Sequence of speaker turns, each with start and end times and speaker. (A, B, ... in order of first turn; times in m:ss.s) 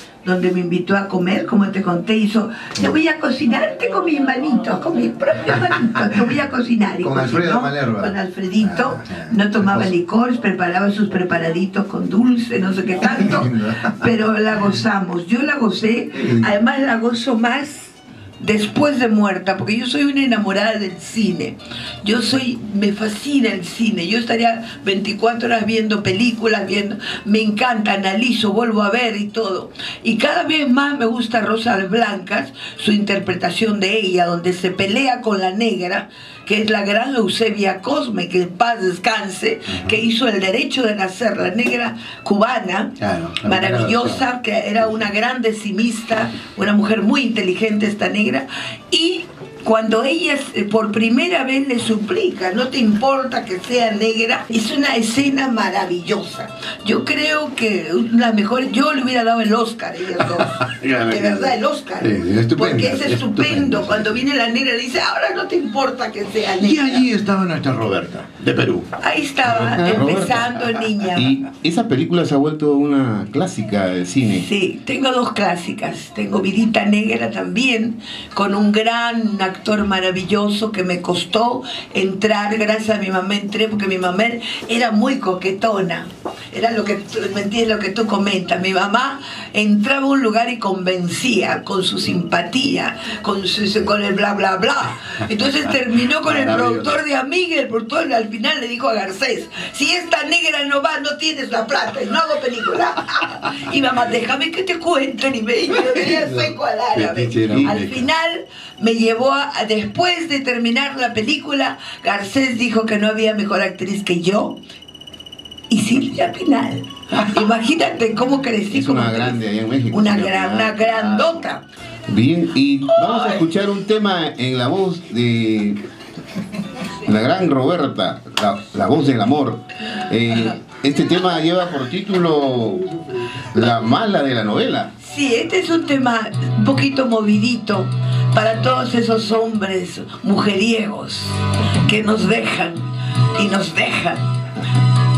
0:00.2-1:07.1 A
0:07.0-0:09.9 B
0:13.1-0:14.0 B
0:16.2-0:16.5 B
0:43.0-0:44.2 B
1:00.4-1:04.2 B
1:06.6-1:08.9 B
1:09.0-1:11.4 A
1:09.5-1:14.4 C
1:09.9-1:10.2 B
1:14.3-1:54.6 A
1:36.2-1:37.0 B
1:45.9-1:48.1 B
1:47.5-1:47.8 C
1:55.7-1:59.4 A
1:58.7-2:01.5 C
1:59.9-2:01.6 A
2:02.1-2:05.8 C
2:03.0-2:03.4 A
2:07.0-2:13.0 C
2:13.5-2:14.9 C
2:15.0-2:22.8 A
2:23.3-2:24.2 A